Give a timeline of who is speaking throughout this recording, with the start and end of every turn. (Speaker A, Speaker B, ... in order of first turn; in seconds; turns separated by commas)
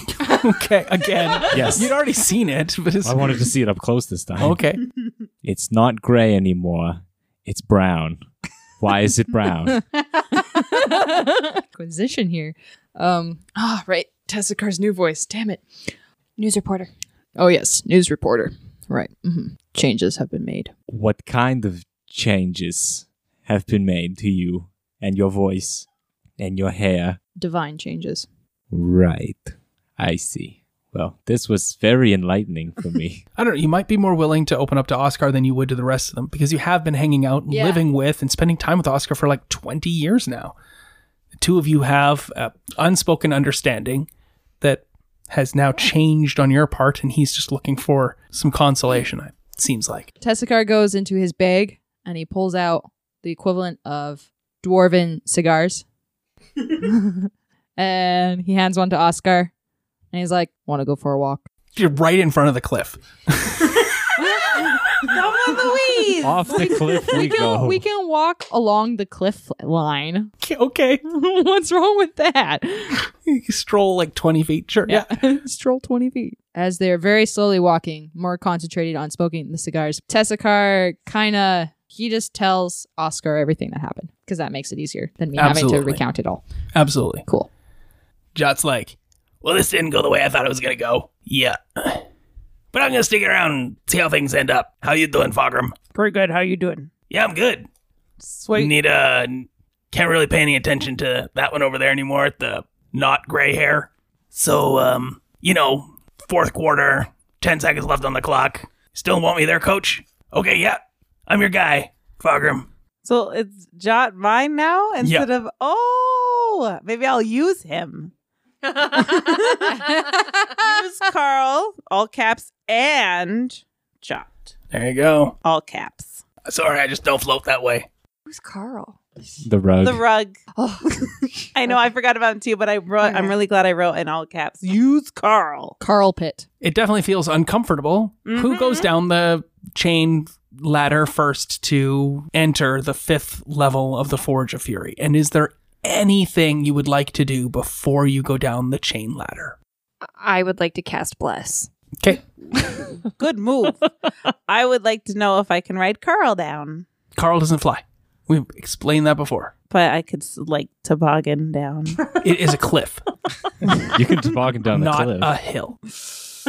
Speaker A: 0.2-3.5, Speaker B: 1.5-2.0, Speaker B: 3.0-4.6, Speaker A: 4.4-4.8, Speaker B: 5.4-8.2, Speaker B: 8.8-9.9, Speaker C: 10.3-15.9, Speaker D: 16.4-16.9, Speaker C: 17.4-20.7, Speaker B: 20.9-25.9, Speaker B: 26.4-27.2, Speaker C: 27.4-28.3, Speaker B: 28.7-33.2, Speaker A: 33.4-40.5, Speaker C: 37.5-37.8, Speaker A: 41.4-44.1, Speaker A: 44.6-50.1, Speaker C: 50.2-55.8, Speaker C: 56.8-59.5, Speaker C: 60.1-61.5, Speaker A: 61.7-63.9, Speaker E: 64.5-66.9, Speaker B: 66.2-67.8, Speaker C: 66.5-70.3, Speaker A: 70.4-71.0, Speaker C: 71.0-73.0, Speaker A: 73.2-75.1, Speaker C: 74.9-86.4, Speaker A: 85.3-86.0, Speaker A: 86.7-87.2, Speaker A: 88.3-92.0, Speaker A: 92.7-95.8, Speaker E: 95.9-96.9, Speaker A: 97.1-97.7, Speaker E: 98.2-98.7, Speaker A: 98.5-112.7, Speaker E: 113.0-118.1, Speaker E: 118.6-124.3, Speaker A: 124.7-125.3, Speaker E: 125.4-126.2, Speaker A: 126.4-127.9, Speaker D: 128.3-129.0, Speaker B: 129.4-130.0, Speaker E: 129.8-130.3, Speaker D: 130.5-131.5, Speaker E: 131.5-135.8, Speaker D: 133.0-133.3, Speaker C: 135.8-136.4, Speaker A: 136.6-149.6, Speaker E: 138.2-138.9, Speaker D: 150.1-151.7, Speaker A: 152.0-152.8, Speaker E: 153.0-153.9, Speaker E: 154.5-156.9, Speaker A: 157.1-159.5, Speaker E: 159.7-162.0, Speaker A: 162.1-163.0, Speaker B: 163.7-165.3, Speaker A: 164.7-165.8